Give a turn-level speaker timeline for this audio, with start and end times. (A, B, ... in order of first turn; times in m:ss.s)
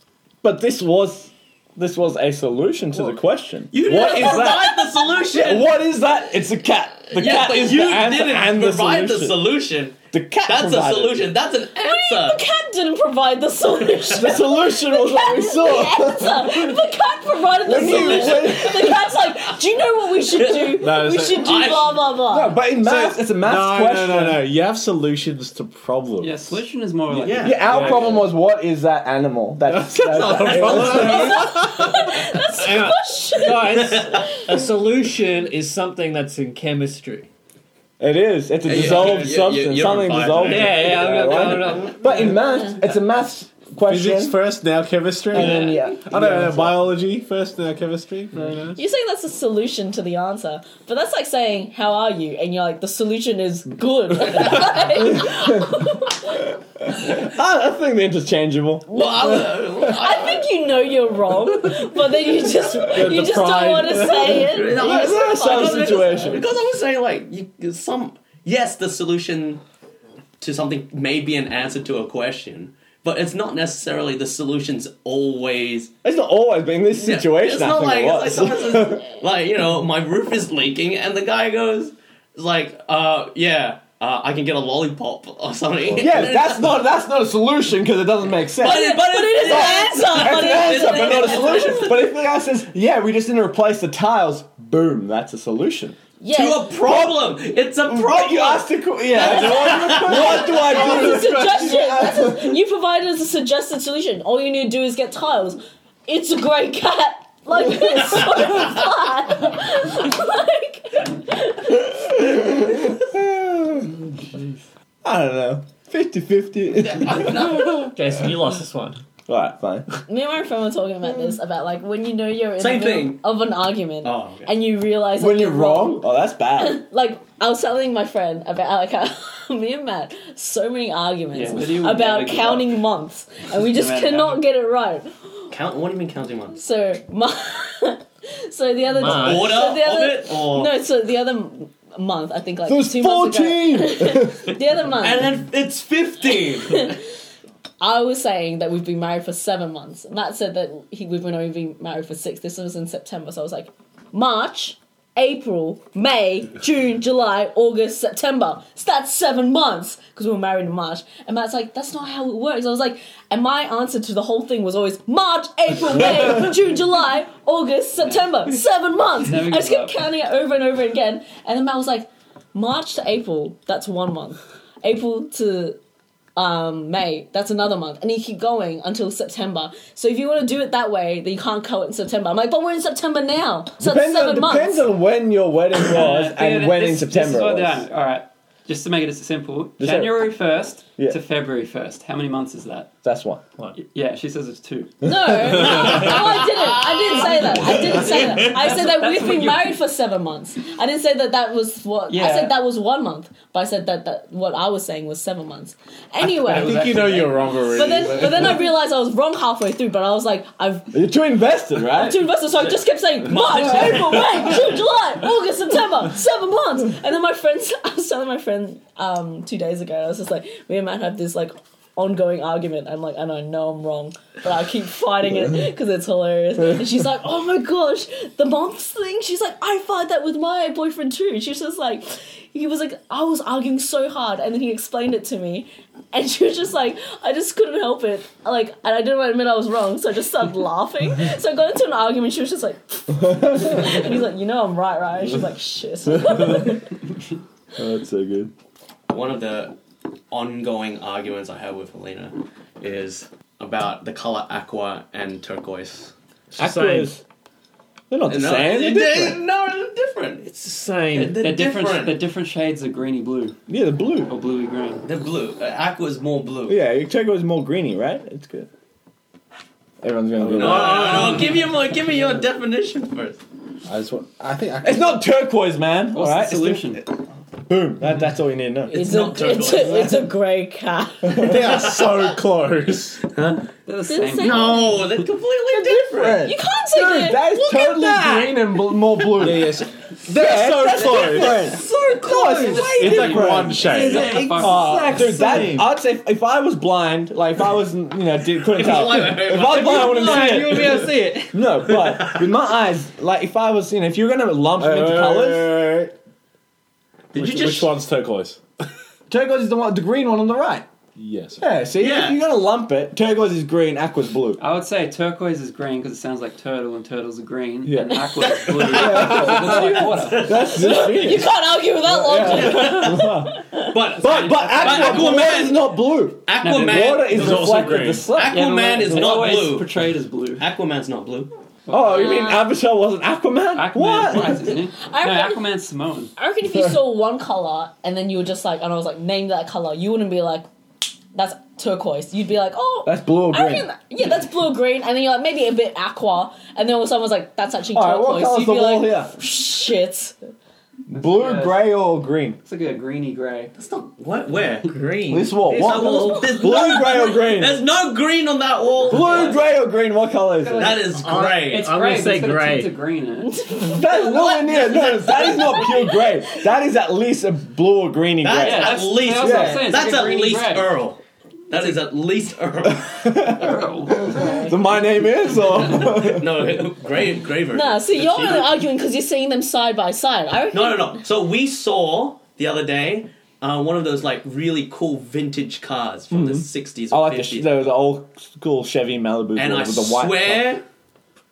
0:00.4-0:09.4 A
0:03.7-0:05.8 B
0:03.9-0:05.2 C
0:07.1-0:12.4 B
0:10.1-0:11.2 A
0:11.8-0:22.6 C
0:13.9-0:14.3 B
0:14.1-0:16.7 A
0:17.6-0:19.0 A
0:17.7-0:19.4 B
0:20.4-0:22.1 B
0:20.7-0:21.8 D
0:22.3-0:24.4 A
0:22.8-0:26.6 D
0:26.2-0:28.2 E
0:27.1-0:31.3 A
0:27.2-0:28.2 B
0:29.6-0:31.9 D
0:30.1-0:32.1 B
0:30.8-0:34.5 C
0:32.5-0:37.3 F
0:33.7-0:34.3 B
0:38.0-0:44.4 A
0:38.6-0:41.0 B
0:40.4-0:42.4 F
0:43.8-0:48.8 D
0:45.3-0:46.8 A
0:45.3-0:45.8 B
0:48.8-0:56.5 C
0:54.9-0:55.8 A
0:56.9-0:58.9 A
0:58.9-1:06.4 C
0:58.9-1:00.5 B
1:02.7-1:04.2 D
1:02.7-1:06.4 A
1:04.1-1:09.6 B
1:10.4-1:15.9 B
1:16.0-1:19.1 A
1:16.9-1:26.8 B
1:25.9-1:26.3 D
1:26.0-1:36.0 A
1:28.6-1:32.0 B
1:28.6-1:32.1 C
1:36.2-1:36.7 C
1:36.3-1:40.9 B
1:36.8-1:42.5 A
1:39.5-1:52.2 C
1:39.7-1:42.1 D
1:52.2-1:53.9 A
1:55.0-1:57.8 A
1:56.9-1:57.7 B
1:57.7-1:59.0 F
1:59.3-1:59.9 A
2:00.1-2:15.5 C
2:02.6-2:03.2 B
2:04.0-2:04.5 B
2:05.2-2:06.8 A
2:11.3-2:12.8 E
2:13.6-2:14.4 E
2:15.5-2:16.6 B
2:16.5-2:25.4 C
2:18.9-2:19.6 F
2:19.0-2:20.7 B
2:22.7-2:24.5 A
2:25.0-2:27.0 B
2:26.2-2:27.0 C
2:27.8-2:55.8 C
2:48.0-2:48.4 E
2:49.2-2:50.0 E
2:56.4-3:04.9 C
3:03.8-3:07.8 A
3:05.8-3:12.9 E
3:09.8-3:10.3 A
3:13.0-3:13.4 A
3:13.8-3:14.9 E
3:15.0-3:26.8 C
3:15.3-3:15.8 A
3:17.5-3:19.7 E
3:22.1-3:22.6 E
3:26.4-3:28.1 E
3:26.4-3:28.7 D
3:27.7-3:31.0 C
3:30.9-3:32.2 A
3:31.9-4:06.9 C
3:33.2-3:34.8 B
4:03.2-4:03.9 A
4:06.2-4:06.8 A
4:07.8-4:08.5 A
4:09.1-4:09.8 B
4:10.3-4:16.1 B
4:16.5-4:17.2 F
4:16.6-4:17.2 A
4:18.1-4:19.4 A
4:18.2-4:20.5 B
4:20.4-4:21.4 F
4:21.2-4:22.2 B
4:21.2-4:23.6 E
4:23.7-4:24.3 A
4:24.3-4:25.0 E
4:25.0-4:26.8 B
4:26.7-4:28.7 A
4:30.0-4:31.4 A
4:30.4-4:31.5 D
4:30.6-4:33.4 B
4:31.0-4:31.4 F
4:33.8-4:35.3 D
4:34.8-4:37.1 A
4:36.1-4:37.0 E
4:37.7-4:39.1 A
4:38.9-4:41.6 C
4:38.9-4:40.2 B
4:41.3-4:43.2 D
4:41.5-4:42.3 B
4:43.3-4:43.7 B
4:43.8-4:45.2 E
4:44.1-4:45.0 C
4:44.4-4:46.5 B
4:45.7-4:48.5 C
4:45.8-5:05.7 A
4:49.3-4:51.7 D
4:51.5-4:53.2 F
4:52.2-4:55.2 E
4:52.7-4:55.8 D
4:53.8-4:55.8 F
4:58.7-5:00.5 B
4:59.5-5:01.8 F
5:02.0-5:02.5 B
5:04.7-5:06.1 D
5:07.3-5:07.9 B
5:07.3-5:08.6 D
5:09.3-5:10.8 A
5:11.2-5:11.6 D
5:11.6-5:14.6 A
5:12.0-5:12.5 B
5:14.6-5:21.2 E
5:17.8-5:29.6 A
5:19.2-5:21.3 B
5:20.6-5:24.0 C
5:22.5-5:30.0 B
5:24.8-5:25.2 E
5:26.6-5:27.2 E
5:27.3-5:28.3 D
5:28.4-5:30.7 E
5:30.6-5:31.5 B
5:31.9-5:32.6 E
5:31.9-5:34.6 A
5:32.0-5:32.7 C
5:33.7-5:36.3 E
5:34.3-5:34.8 B
5:35.0-5:35.6 C
5:36.4-5:40.6 C
5:41.3-5:50.3 C
5:43.0-5:43.8 A
5:47.9-5:49.3 A
5:51.1-5:52.6 A
5:51.1-5:51.9 E
5:52.6-5:53.7 E
5:53.8-5:54.9 B
5:54.9-5:56.5 F
5:55.3-5:57.8 A
5:55.7-5:59.6 B
5:59.0-6:01.0 A
5:59.2-5:59.5 E
6:00.5-6:03.8 E
6:00.8-6:01.9 B
6:01.2-6:02.9 F
6:03.5-6:04.4 C
6:03.7-6:09.9 A
6:04.1-6:06.2 B
6:08.4-6:13.4 B
6:08.6-6:10.9 E
6:12.8-6:16.8 A
6:13.5-6:16.1 E
6:14.3-6:14.7 C
6:15.7-6:18.7 B
6:17.7-6:21.2 C
6:18.3-6:18.6 E
6:20.7-6:27.7 B
6:26.3-6:30.7 A
6:29.6-6:30.8 B